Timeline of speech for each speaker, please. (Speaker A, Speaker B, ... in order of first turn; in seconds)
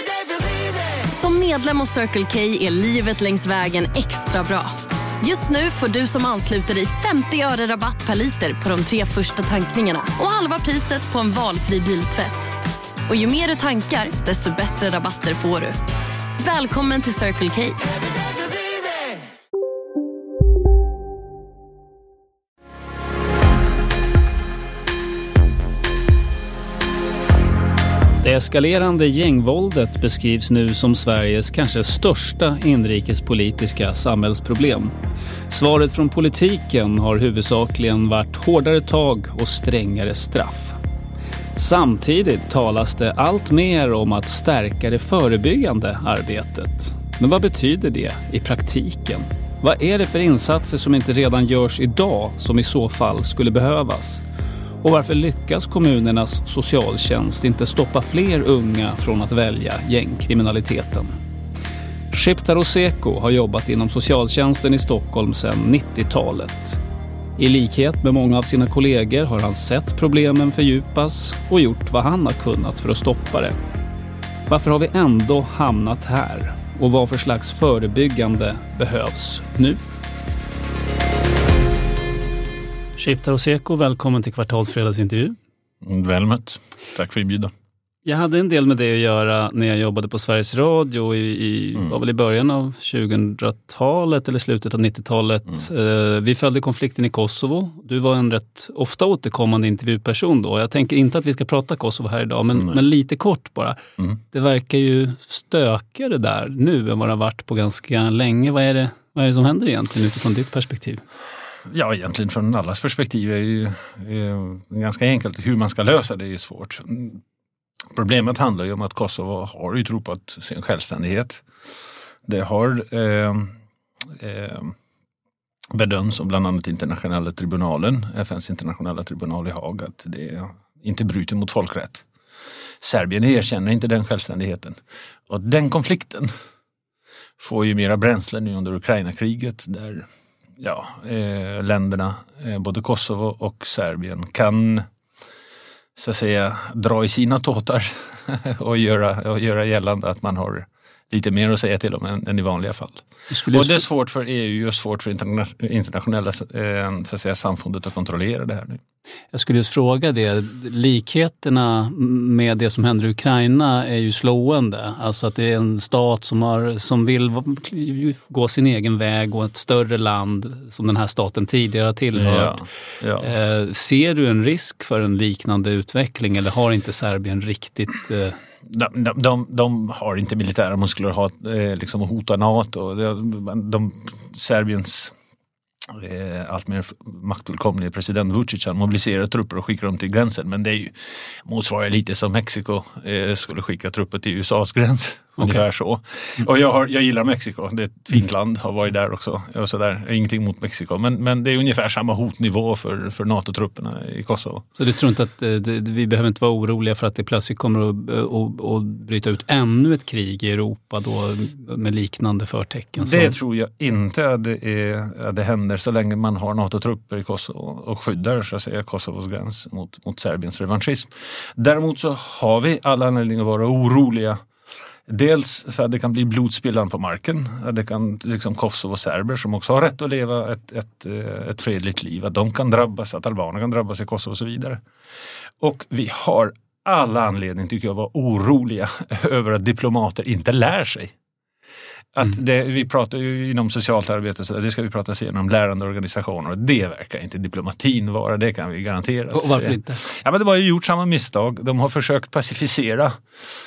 Speaker A: 1.1-12.5, 13.1-15.8, 16.4-17.8
Speaker B: 28.2-34.9, 35.5-40.8, 41.5-54.2, 54.8-61.1, 62.1-66.8, 67.4-73.5, 74.5-79.8, 83.0-85.3, 88.0-103.8, 104.3-111.0, 153.3-153.8, 159.3-172.6, 173.2-178.4, 204.8-213.3, 249.3-250.0
Speaker C: 85.8-87.5, 111.7-117.2, 117.9-121.4, 122.2-123.5, 124.1-124.7, 125.7-132.1, 132.8-134.8, 135.3-136.3, 137.4-140.1, 140.6-144.9, 145.9-158.8, 172.2-173.3, 178.7-185.1, 185.9-204.7, 213.0-224.4, 225.1-234.8, 235.6-241.1, 242.1-253.2